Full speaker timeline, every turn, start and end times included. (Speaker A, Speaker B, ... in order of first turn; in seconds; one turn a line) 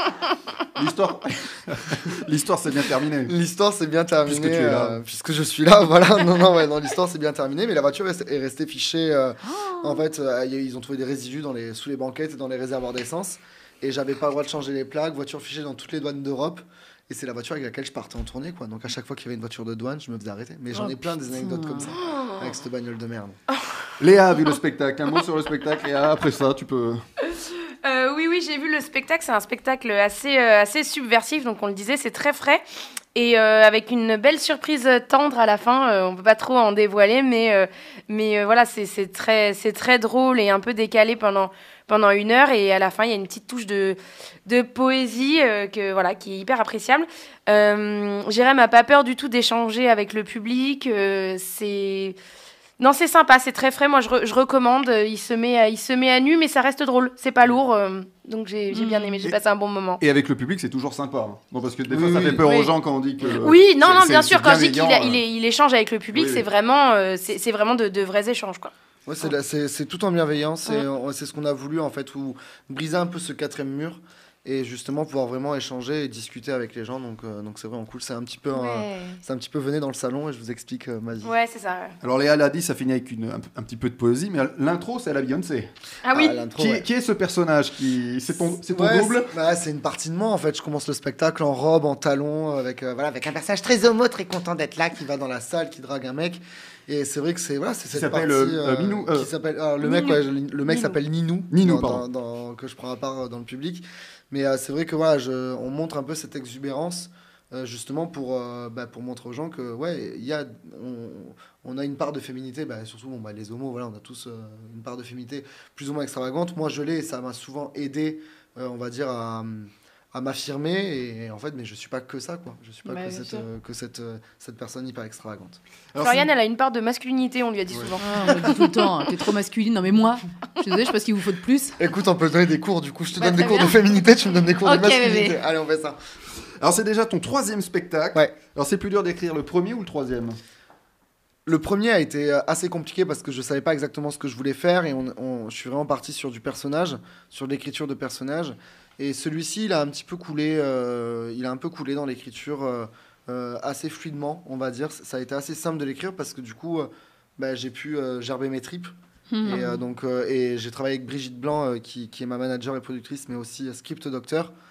Speaker A: 0.8-3.3
Speaker B: 3.2-23.4
Speaker A: 4.2-5.0
Speaker C: 9.4-10.0
Speaker C: 20.7-21.9
Speaker D: 22.1-22.3
Speaker A: 24.0-27.0
Speaker D: 27.4-32.6
Speaker D: 33.1-52.2
Speaker D: 52.8-60.0
Speaker C: 58.7-59.1
Speaker A: 60.0-65.2
Speaker B: 61.9-62.5
Speaker D: 62.2-62.7
Speaker D: 63.4-69.3
Speaker A: 66.1-66.5
Speaker B: 69.0-81.3
Speaker D: 78.5-79.2
Speaker D: 81.2-81.9
Speaker A: 82.0-85.7
Speaker D: 86.0-86.5
Speaker B: 86.1-86.9
Speaker A: 86.5-89.3
Speaker B: 88.5-125.6
Speaker A: 97.9-99.3
Speaker D: 99.8-101.0
Speaker A: 101.5-102.0
Speaker C: 122.8-123.4
Speaker A: 125.9-126.3
Speaker D: 126.0-128.6
Speaker B: 127.7-128.0
Speaker C: 128.0-131.7
Speaker B: 131.8-136.0
Speaker C: 133.2-133.8
Speaker C: 134.6-135.4
Speaker A: 136.6-140.4
Speaker B: 141.4-164.5
Speaker C: 159.3-159.8